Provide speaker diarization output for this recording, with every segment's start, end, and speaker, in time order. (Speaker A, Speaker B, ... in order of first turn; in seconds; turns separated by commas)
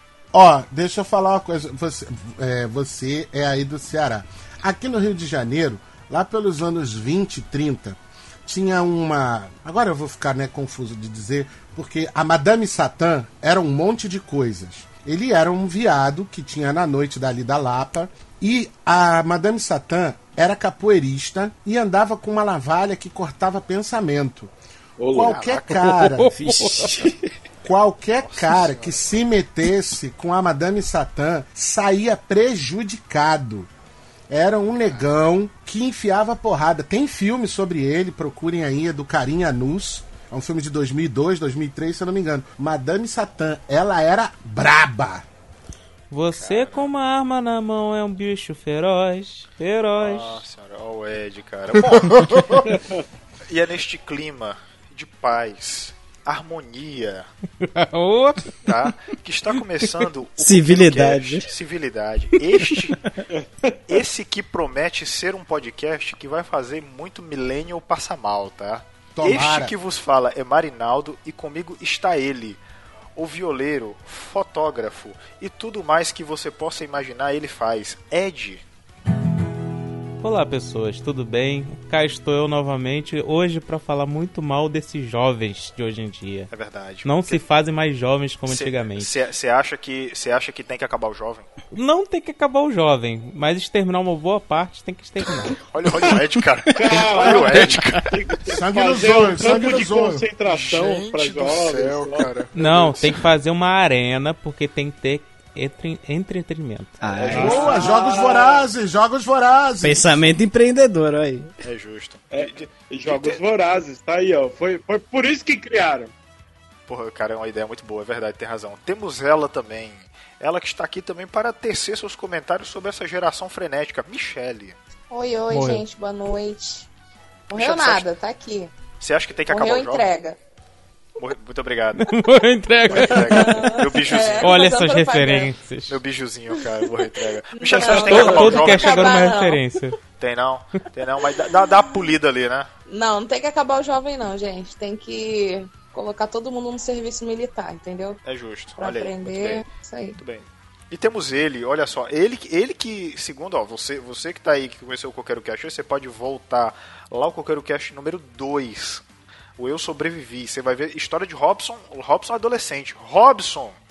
Speaker A: 0.3-24.5, Speaker B: 25.0-25.4, Speaker A: 25.1-26.3, Speaker C: 25.2-25.8, Speaker D: 25.9-27.1, Speaker E: 26.3-27.1, Speaker A: 27.6-33.7, Speaker C: 28.2-29.2, Speaker A: 34.3-45.2, Speaker D: 46.1-50.4, Speaker C: 46.3-46.9, Speaker C: 50.0-52.6, Speaker A: 51.8-52.8, Speaker C: 53.5-57.3, Speaker D: 57.6-58.9, Speaker C: 58.6-63.0, Speaker E: 60.4-61.5, Speaker B: 63.3-63.8, Speaker C: 63.9-72.6, Speaker A: 69.2-69.7, Speaker C: 73.2-78.6, Speaker D: 80.2-86.5, Speaker C: 86.5-87.4, Speaker D: 87.0-89.1, Speaker C: 88.5-91.5, Speaker D: 91.7-95.6, Speaker C: 95.6-98.1, Speaker B: 96.8-102.3, Speaker A: 98.5-100.2, Speaker C: 100.5-102.5, Speaker D: 102.5-107.0, Speaker E: 107.0-107.8, Speaker C: 107.2-107.9, Speaker B: 107.3-108.7, Speaker A: 107.3-110.2, Speaker E: 109.8-111.5, Speaker C: 111.6-113.4, Speaker B: 112.3-116.1, Speaker C: 116.9-124.8, Speaker F: 125.1-126.9, Speaker D: 125.5-125.8, Speaker C: 127.5-128.1, Speaker F: 127.5-128.7, Speaker C: 129.0-130.1, Speaker F: 129.5-130.4, Speaker C: 131.2-132.1, Speaker D: 132.1-133.8, Speaker C: 132.9-134.5, Speaker F: 133.0-135.5, Speaker D: 134.4-136.0, Speaker C: 135.9-139.3, Speaker F: 137.5-139.6, Speaker D: 137.9-140.0, Speaker C: 140.2-142.7, Speaker F: 142.9-148.2, Speaker C: 148.2-149.6, Speaker F: 148.8-150.2, Speaker C: 150.2-159.0, Speaker C: 159.6-163.8